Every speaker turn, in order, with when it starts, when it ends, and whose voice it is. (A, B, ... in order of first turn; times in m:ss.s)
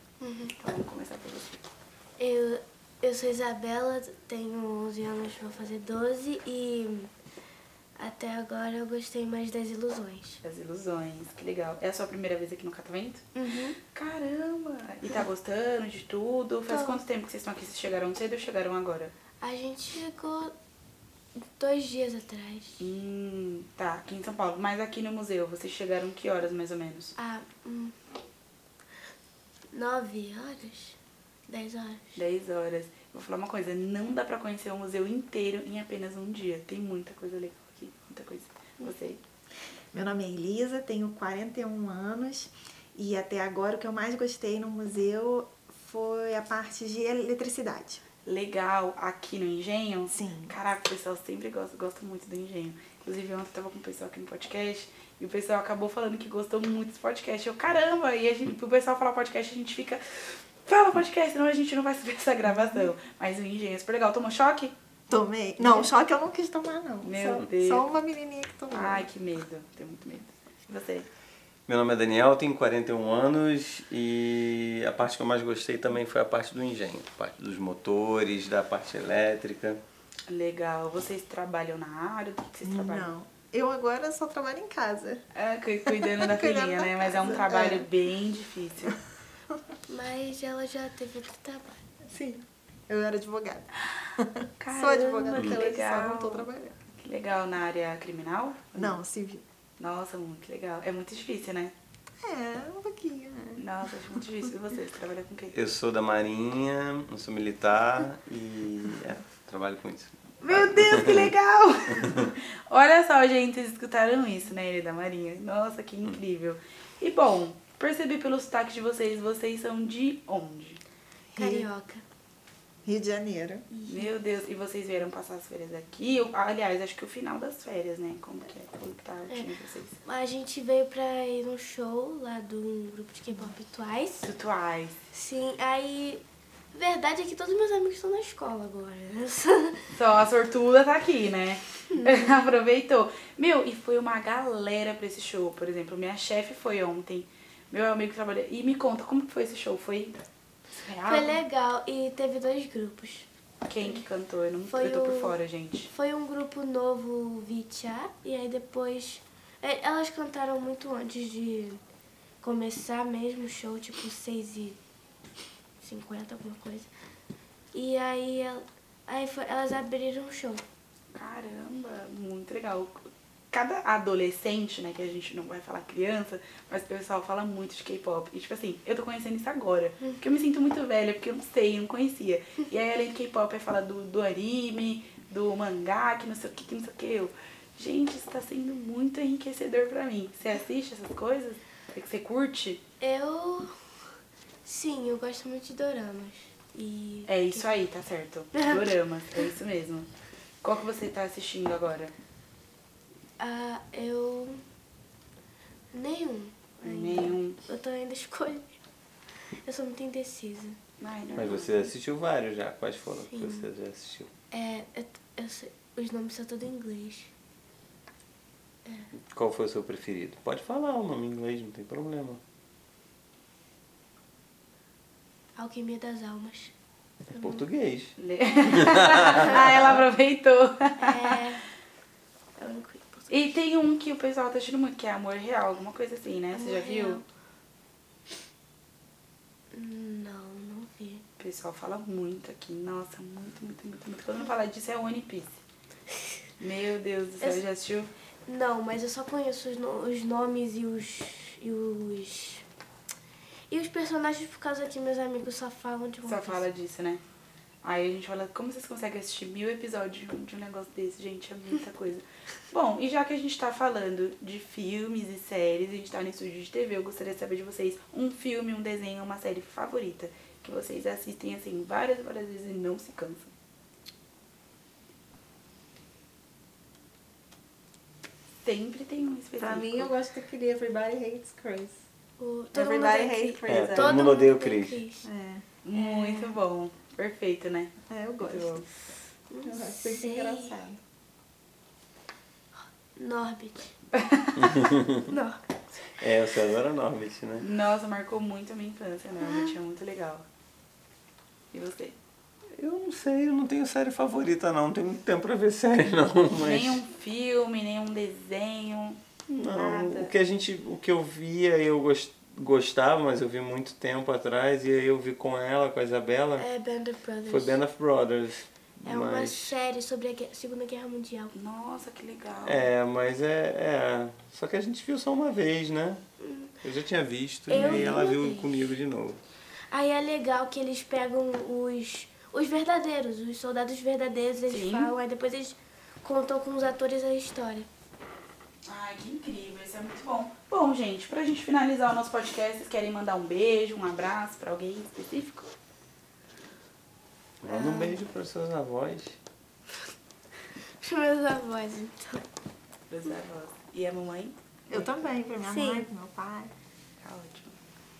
0:00.2-0:00.5 A
0:00.6-0:01.6 B
0:02.2-0:07.1 A
0:08.0-0:10.4 A
0:10.4-0:13.2 B
0:13.3-0:13.8 A
0:13.9-0:19.1 B
0:16.7-0:17.0 A
0:19.4-0:20.5 A
0:21.4-0:22.8 A
0:22.8-0:27.1 B
0:27.2-0:28.0 A
0:29.7-0:32.1 A
0:32.2-0:39.2 B
0:39.9-0:48.0 C
0:48.2-1:04.7 B
0:50.1-0:50.6 C
1:05.1-1:09.1 C
1:05.6-1:05.9 B
1:07.0-1:07.9 B
1:08.7-1:11.1 B
1:11.7-1:19.8 D
1:20.3-1:23.1 B
1:22.6-1:25.2 C
1:25.3-1:29.0 B
1:25.8-1:27.9 C
1:29.9-1:31.8 A
1:32.0-1:36.7 C
1:34.6-1:39.0 B
1:35.3-1:35.6 D
1:38.7-1:39.4 C
1:39.8-1:41.7 B
1:42.2-1:43.6 C
1:43.6-1:45.6 B
1:45.5-1:51.3 D
1:50.4-2:00.8 B
2:01.3-2:01.7 C
2:01.3-2:02.0 A
2:02.8-2:03.6 C
2:03.7-2:04.1 A
2:03.9-2:10.0 B
2:10.0-2:14.3 A
2:14.2-2:15.0 B
2:15.1-2:16.2 A
2:16.7-2:19.9 A
2:19.9-2:31.4 B
2:31.0-2:33.3 A
2:33.6-2:35.9 B
2:33.8-2:34.0 A
2:34.7-2:35.4 A
2:35.9-2:41.8 A
2:42.4-2:44.8 A
2:45.8-2:46.9 A
2:47.7-2:50.6 A
2:51.1-3:12.8 B
3:13.0-3:13.7 A
3:14.6-3:17.7 A
3:17.3-3:20.1 B
3:18.5-3:18.9 A
3:20.6-3:22.1 B
3:23.4-3:24.6 A
3:25.9-3:28.7 A
3:26.8-3:27.6 B
3:29.6-3:30.8 A
3:31.0-3:31.9 B
3:31.3-3:34.3 D
3:33.3-3:33.7 A
3:34.5-3:37.3 A
3:39.2-3:42.4 D
3:45.6-3:46.7 A
3:47.3-3:47.6 A
3:47.4-3:48.1 D
3:48.2-3:51.5 B
3:48.9-3:49.8 D
3:51.0-3:51.6 A
3:52.6-3:53.5 A
3:53.3-3:57.2 B
3:56.5-3:57.2 A
3:59.7-4:01.2 A
4:01.4-4:05.6 B
4:06.6-4:08.1 B
4:08.4-4:12.6 A
4:13.7-4:16.6 A
4:16.2-4:17.2 B
4:17.8-4:33.5 B
4:38.6-4:40.1 B
4:39.6-4:42.0 C
4:42.4-4:45.3 A
4:42.7-4:44.2 C
4:43.6-4:45.0 D
4:45.2-4:45.6 C
4:45.8-4:48.8 B
4:45.9-4:46.6 A
4:48.1-4:48.8 C
4:49.5-4:50.8 A
4:49.6-4:51.0 C
4:53.1-4:54.0 A
4:54.2-4:54.5 B
4:54.6-4:55.6 A
4:54.7-4:55.1 D
4:56.2-4:57.6 D
4:57.6-5:00.4 B
5:01.7-5:02.2 B
5:02.7-5:07.0 D
5:06.5-5:10.3 B
5:09.5-5:16.7 D
5:16.6-5:17.8 A
5:17.5-5:19.7 D
5:19.0-5:21.5 A
5:21.5-5:22.8 B
5:22.6-5:26.2 D
5:26.4-5:26.7 A
5:26.8-5:29.4 D
5:27.7-5:28.8 A
5:27.7-5:28.1 B
5:29.9-5:37.9 A
5:34.7-5:35.2 B
5:38.8-5:45.7 B
5:47.6-5:49.4 D
5:47.6-5:48.2 A
5:51.0-5:52.4 A
5:53.1-5:55.2 B
5:54.9-5:56.7 C
5:55.6-5:56.1 A
5:57.2-5:57.8 B